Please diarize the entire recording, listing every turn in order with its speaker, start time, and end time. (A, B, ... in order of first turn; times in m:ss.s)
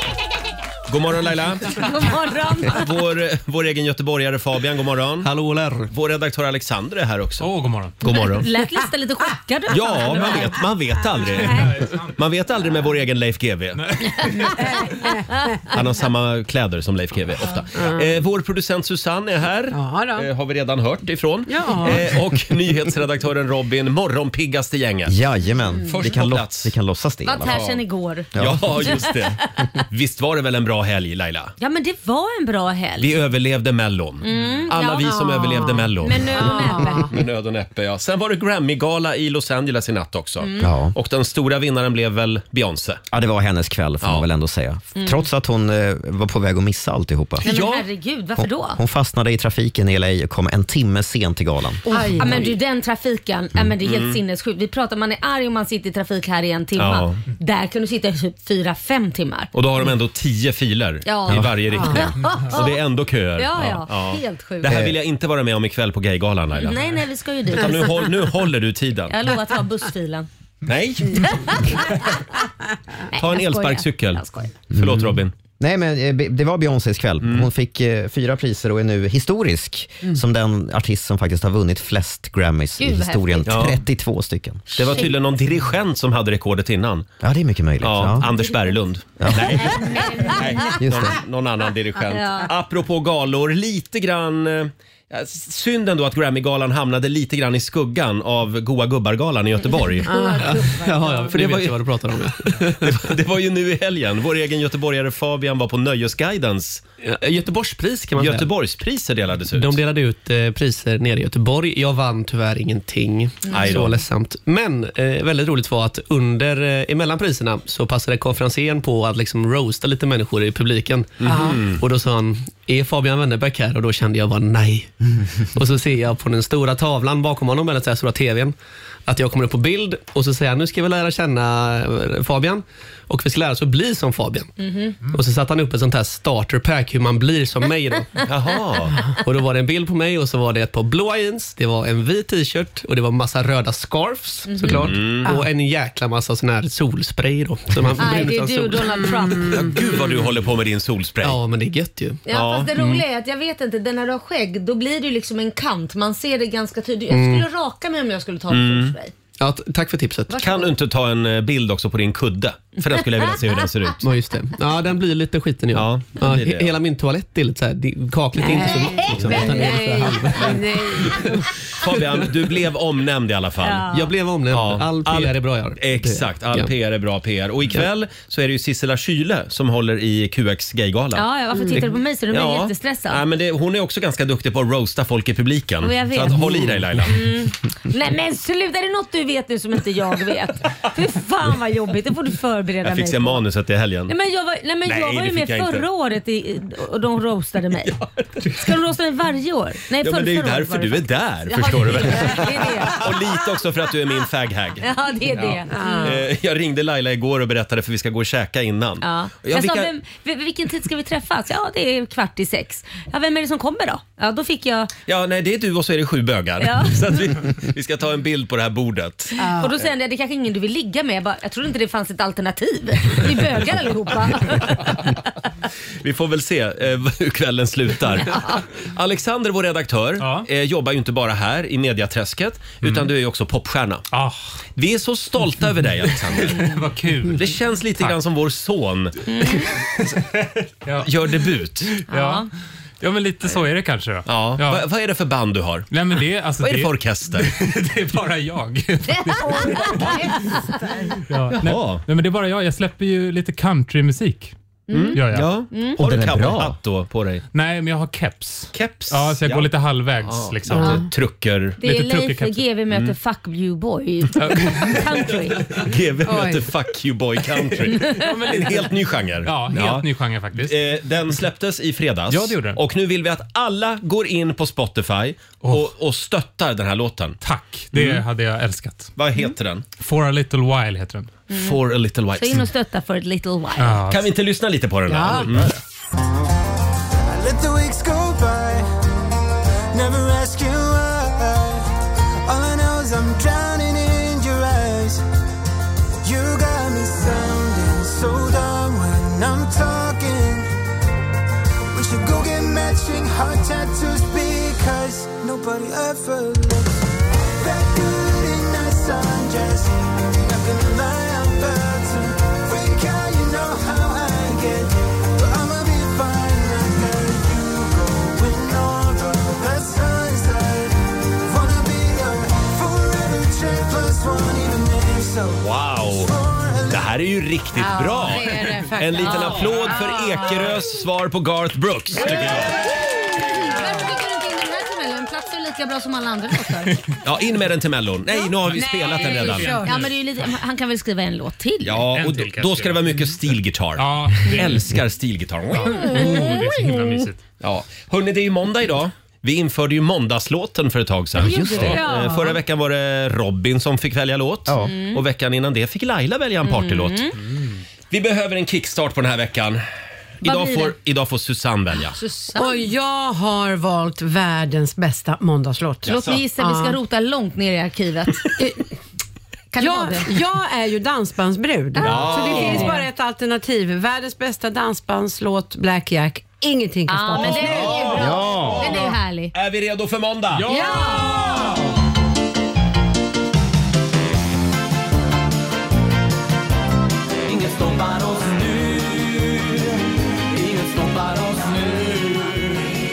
0:00.9-0:01.8 A
0:01.7-0:02.9 B
0:02.6-0:05.3 A
0:05.2-0:05.9 C
0:05.9-0:08.5 A
0:07.4-0:08.0 D
0:08.0-0:10.6 B
0:09.7-0:13.8 A
0:11.3-0:11.8 B
0:11.4-0:12.1 D
0:13.8-0:14.2 D
0:14.5-0:15.7 E
0:15.7-0:25.1 A
0:19.7-0:20.3 E
0:21.5-0:22.1 E
0:25.0-0:27.6 F
0:25.9-0:26.7 A
0:27.2-0:28.3 B
0:27.4-0:27.8 A
0:28.3-0:29.1 F
0:28.4-0:31.5 A
0:28.8-0:29.2 B
0:31.6-0:33.1 B
0:33.0-0:43.0 A
0:34.2-0:35.4 B
0:35.0-0:37.1 E
0:36.0-0:37.1 B
0:40.4-0:40.7 B
0:40.6-0:41.0 F
0:43.1-0:47.5 F
0:47.4-0:47.8 A
0:47.4-0:48.8 B
0:48.4-0:51.8 F
0:51.9-0:59.5 B
0:51.9-0:52.5 E
0:53.8-0:54.2 A
0:56.8-0:57.2 A
0:59.5-1:06.8 A
1:01.0-1:02.8 B
1:01.7-1:02.0 E
1:03.4-1:04.8 B
1:04.7-1:04.9 F
1:06.6-1:08.1 B
1:07.5-1:09.1 A
1:09.1-1:10.3 B
1:10.7-1:11.8 A
1:11.2-1:12.2 B
1:13.1-1:14.5 B
1:13.2-1:15.3 A
1:14.7-1:24.9 F
1:17.2-1:17.5 A
1:22.8-1:23.6 B
1:23.5-1:23.8 A
1:24.7-1:27.1 A
1:27.2-1:28.3 F
1:27.8-1:40.2 A
1:29.2-1:29.8 F
1:29.3-1:30.7 B
1:30.8-1:31.2 F
1:32.1-1:32.5 B
1:39.6-1:41.4 B
1:40.1-1:43.1 C
1:41.3-1:41.8 A
1:42.5-1:46.8 A
1:47.0-1:48.5 C
1:48.2-1:49.8 A
1:49.5-2:08.5 C
1:53.5-1:54.0 A
2:01.2-2:01.8 A
2:01.2-2:01.6 E
2:09.1-2:14.5 C
2:14.6-2:15.0 B
2:15.0-2:18.2 C
2:18.2-2:19.0 A
2:19.2-2:29.0 C
2:24.5-2:24.8 B
2:24.7-2:25.3 A
2:28.0-2:29.7 B
2:29.5-2:31.4 A
2:31.2-2:32.2 C
2:32.2-2:39.1 B
2:32.3-2:32.7 A
2:32.7-2:33.0 C
2:37.1-2:37.5 C
2:38.5-2:38.9 A
2:39.4-2:40.4 C
2:40.3-2:40.7 B
2:40.4-2:44.0 A
2:44.0-2:50.6 C
2:45.7-2:46.7 A
2:48.4-2:51.4 E
2:51.7-2:53.9 A
2:53.6-2:54.0 B
2:53.9-2:56.7 C
2:54.5-3:07.2 A
3:01.1-3:03.2 B
3:05.8-3:06.5 B
3:07.0-3:13.4 B
3:12.8-3:14.1 A
3:14.1-3:23.1 B
3:14.8-3:15.8 A
3:17.9-3:18.5 A
3:20.0-3:24.8 A
3:24.8-3:26.2 B
3:25.3-3:29.9 A
3:25.7-3:26.2 E
3:29.0-3:34.9 B
3:35.0-3:39.4 A
3:36.6-3:37.2 B
3:39.4-3:39.7 E
3:39.4-3:44.9 B
3:46.0-3:54.1 A
3:48.2-3:48.6 B
3:50.2-3:50.5 D
3:52.8-3:53.1 D
3:54.1-3:54.4 D
3:54.8-3:56.7 A
3:56.3-3:58.2 D
3:57.3-3:59.5 A
3:59.3-3:59.6 B
4:00.8-4:01.1 D
4:01.0-4:01.9 A
4:02.0-4:02.5 D
4:02.1-4:02.5 B
4:03.0-4:04.8 D
4:04.3-4:05.9 A
4:05.9-4:10.2 D
4:06.6-4:07.5 A
4:09.1-4:10.6 B
4:09.6-4:10.2 E
4:10.7-4:11.1 E
4:11.3-4:14.5 D
4:11.6-4:12.0 A
4:14.9-4:16.0 B
4:14.9-4:17.4 A
4:15.1-4:15.5 D
4:16.0-4:16.8 F
4:17.5-4:21.0 D
4:18.7-4:19.7 A
4:20.2-4:21.8 A
4:20.7-4:21.1 E
4:21.8-4:25.7 B
4:21.8-4:22.6 D
4:24.4-4:24.7 D
4:24.9-4:37.4 A
4:26.2-4:26.7 E
4:28.0-4:28.9 D
4:29.4-4:30.8 D
4:32.3-4:32.8 D
4:35.6-4:35.9 D
4:37.4-4:39.1 D
4:37.9-4:38.2 A
4:39.2-4:39.8 A
4:40.0-4:41.3 D
4:41.5-4:41.8 B
4:41.5-4:42.7 A
4:42.3-4:44.0 B
4:43.8-4:44.2 D
4:44.1-4:45.8 A
4:45.1-4:45.5 E
4:47.2-4:48.9 G
4:49.9-4:51.9 G
4:52.4-4:55.2 G
4:56.2-5:00.7 G
5:01.9-5:07.0 G
5:07.6-5:27.1 G
5:25.6-5:26.3 A
5:26.9-5:32.8 A
5:27.8-5:30.8 E
5:29.2-5:29.6 B
5:33.4-5:37.0 B
5:33.8-5:34.1 E
5:37.2-5:39.8 A
5:38.7-5:40.1 E
5:39.2-5:40.1 D
5:39.8-5:42.0 B
5:41.8-5:46.4 A
5:42.1-5:43.1 D
5:44.0-5:44.9 D
5:45.7-5:47.4 D
5:45.9-5:47.2 B
5:47.6-5:57.3 A
5:51.4-5:52.0 F
5:51.4-5:52.6 B
5:54.7-5:54.9 F
5:54.8-5:55.2 B
5:56.6-5:57.3 B
5:57.5-5:57.8 D
5:58.1-5:59.8 A
6:00.4-6:02.2 A
6:00.4-6:00.9 B
6:02.2-6:02.8 B
6:02.6-6:07.0 E
6:06.0-6:06.4 A
6:06.0-6:08.6 B
6:09.7-6:10.3 B
6:09.8-6:19.1 E
6:11.9-6:13.0 B
6:12.0-6:13.0 A
6:17.1-6:19.5 B
6:17.4-6:19.0 A
6:18.2-6:18.9 F
6:19.5-6:20.7 A
6:20.6-6:21.6 B